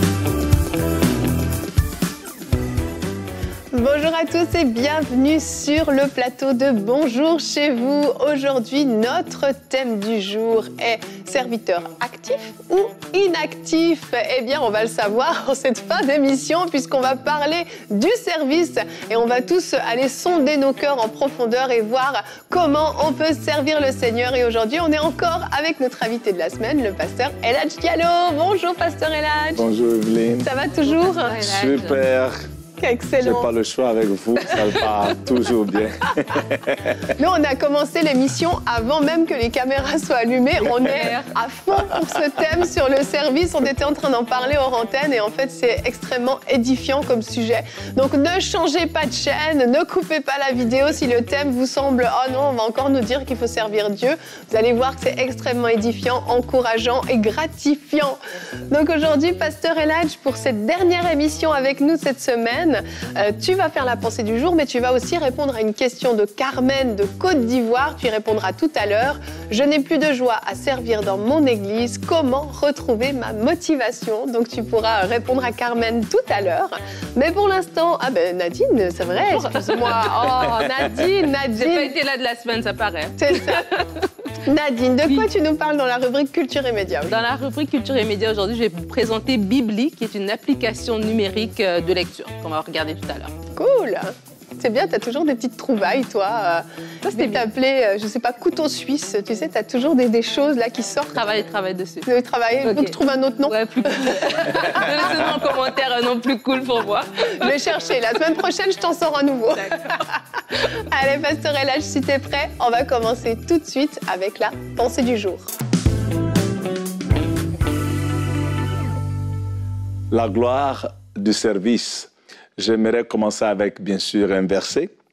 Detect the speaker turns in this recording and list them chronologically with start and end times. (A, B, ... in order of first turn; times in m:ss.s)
0:03.7-0:29.6 A
0:29.5-0:30.5 B
0:30.4-0:31.4 A
0:31.1-0:32.0 C
0:31.4-0:32.5 B
0:32.8-0:33.5 A
0:33.2-0:37.1 B
0:37.0-0:58.2 A
0:40.8-0:41.3 C
0:58.7-1:21.9 A
1:19.3-1:20.2 C
1:21.5-1:24.1 C
1:23.2-1:23.7 A
1:24.4-1:27.2 A
1:27.1-1:33.3 C
1:33.6-1:41.2 A
1:37.0-1:37.4 C
1:41.1-1:42.1 C
1:42.0-1:45.0 A
1:42.6-1:42.9 C
1:43.5-1:47.5 C
1:47.4-1:50.2 A
1:50.7-1:55.5 A
2:00.1-2:04.9 B